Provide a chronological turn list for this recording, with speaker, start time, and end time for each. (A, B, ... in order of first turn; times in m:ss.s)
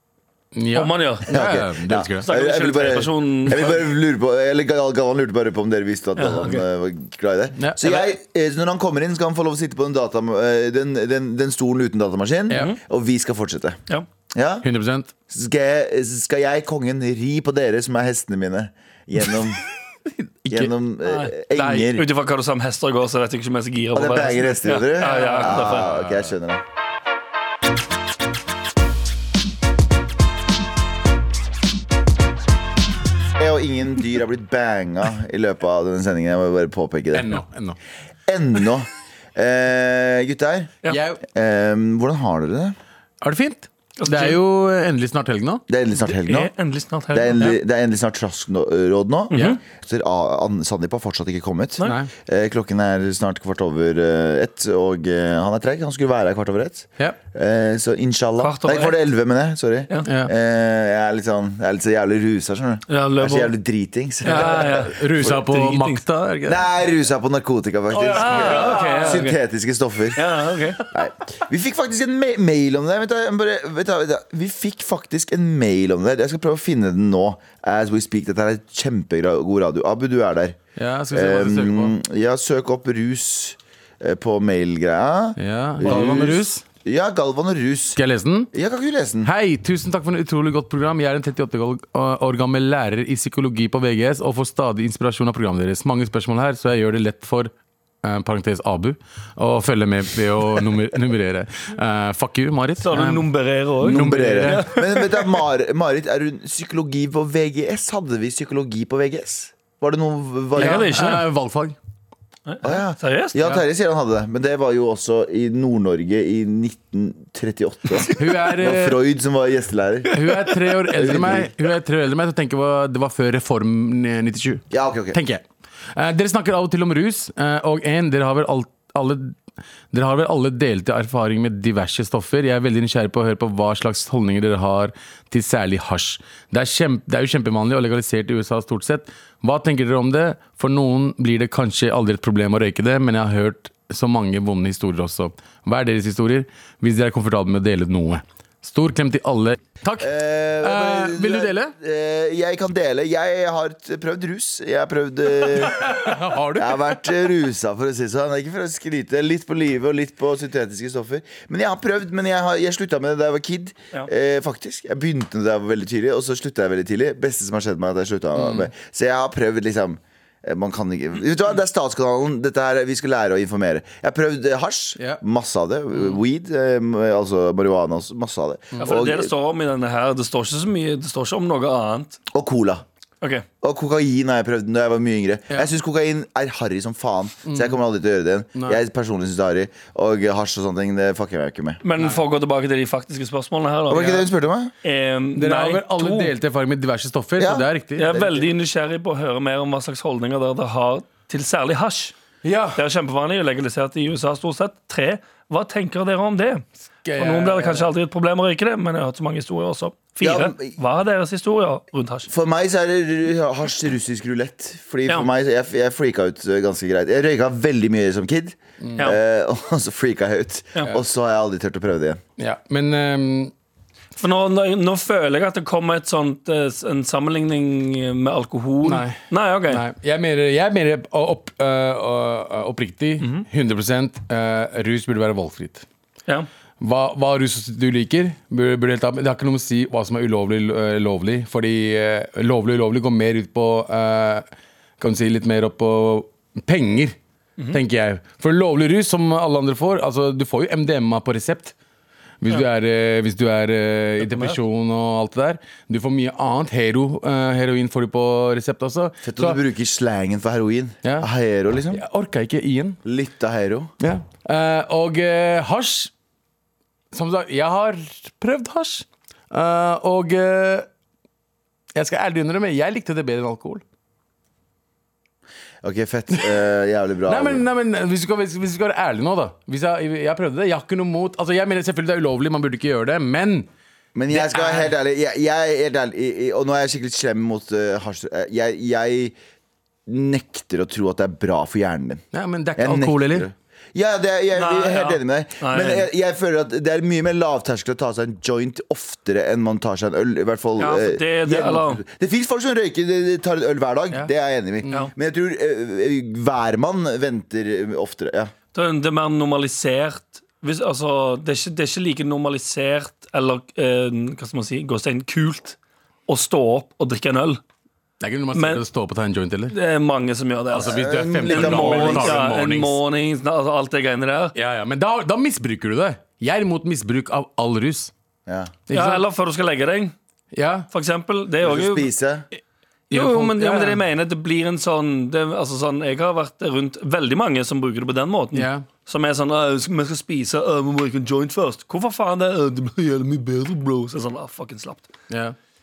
0:00.6-0:02.3 A
0:00.7-0:01.3 B
0:01.3-0:13.8 C
0:02.2-0:03.8 B
0:06.2-0:06.6 B
0:07.6-0:08.0 A
0:12.5-0:12.8 B
0:14.3-0:14.7 C
0:14.6-0:15.1 A
0:15.3-0:19.6 C
0:20.2-0:20.7 A
0:20.5-0:22.1 C
0:21.0-0:21.4 B
0:21.5-0:22.0 A
0:21.9-0:25.9 B
0:23.9-0:26.6 C
0:25.0-0:26.3 A
0:33.4-0:37.4 C
0:37.1-0:37.8 A
0:38.3-0:42.8 C
0:40.9-0:41.2 A
0:43.2-0:45.6 A
0:44.0-0:44.4 B
0:45.7-0:46.5 C
0:46.0-0:47.6 B
0:47.1-1:05.4 C
0:49.3-0:49.6 B
0:51.8-0:52.1 A
0:58.4-0:59.0 B
1:00.1-1:00.3 A
1:02.9-1:03.5 B
1:04.2-1:06.0 B
1:04.3-1:06.7 A
1:06.5-1:20.6 C
1:08.0-1:09.4 B
1:08.0-1:09.2 A
1:10.2-1:10.8 B
1:20.8-1:21.9 A
1:21.1-1:28.0 C
1:25.4-1:26.6 A
1:28.0-1:28.5 A
1:28.5-1:29.3 C
1:29.2-1:37.5 A
1:38.0-1:44.7 A
1:42.8-1:45.1 B
1:43.8-1:50.9 C
1:50.6-1:51.2 B
1:50.6-1:51.8 A
1:52.5-1:53.6 B
1:52.6-2:01.5 C
1:58.1-1:59.0 A
2:00.1-2:09.4 A
2:04.7-2:05.2 C
2:09.9-2:31.7 A
2:30.0-2:59.3 C
2:35.4-2:37.0 A
2:48.4-2:48.7 A
2:58.7-2:59.0 A
2:58.8-3:02.2 B
3:02.3-3:02.8 C
3:03.6-3:11.8 C
3:07.5-3:07.8 A
3:08.6-3:08.8 A
3:11.8-3:14.3 B
3:12.0-3:12.2 A
3:13.9-3:14.7 C
3:14.8-3:16.3 B
3:15.4-3:18.1 A
3:17.4-3:18.5 C
3:18.0-3:22.1 B
3:22.4-3:22.8 A
3:22.8-3:26.6 B
3:27.0-3:27.9 A
3:27.2-3:32.3 B
3:30.2-3:30.8 C
3:32.3-3:42.2 C
3:38.8-3:39.1 A
3:42.4-3:43.5 A
3:44.2-3:49.8 B
3:48.8-3:55.9 A
3:53.2-3:53.4 B
3:56.8-4:04.4 A
4:05.0-4:07.2 A
4:07.7-4:11.7 A
4:12.4-4:19.6 A
4:14.3-4:14.6 B
4:19.2-4:22.0 C
4:21.9-4:23.0 A
4:23.0-4:23.9 C
4:24.0-4:26.1 A
4:27.1-4:30.9 A
4:32.0-4:33.8 A
4:35.8-4:37.6 C
4:37.3-4:43.7 A
4:44.2-4:49.4 C
4:44.6-4:44.8 B
4:50.1-4:52.2 C
4:52.3-4:53.5 A
4:52.8-5:08.5 C
4:54.6-4:56.1 B
5:00.8-5:02.0 B
5:08.7-5:15.8 B
5:16.3-5:17.6 B
5:18.2-5:19.8 A
5:18.5-5:18.8 B
5:19.7-5:20.9 B
5:20.7-5:22.4 C
5:20.7-5:23.0 A
5:21.5-5:24.6 B
5:24.6-5:28.1 A
5:28.5-5:28.8 C
5:28.9-5:29.2 A
5:28.9-5:30.1 B
5:30.5-5:30.9 A
5:30.9-5:32.1 B
5:31.6-5:32.5 C
5:33.1-5:34.0 A
5:33.1-5:45.1 B
5:38.5-5:38.9 A
5:45.3-5:45.6 A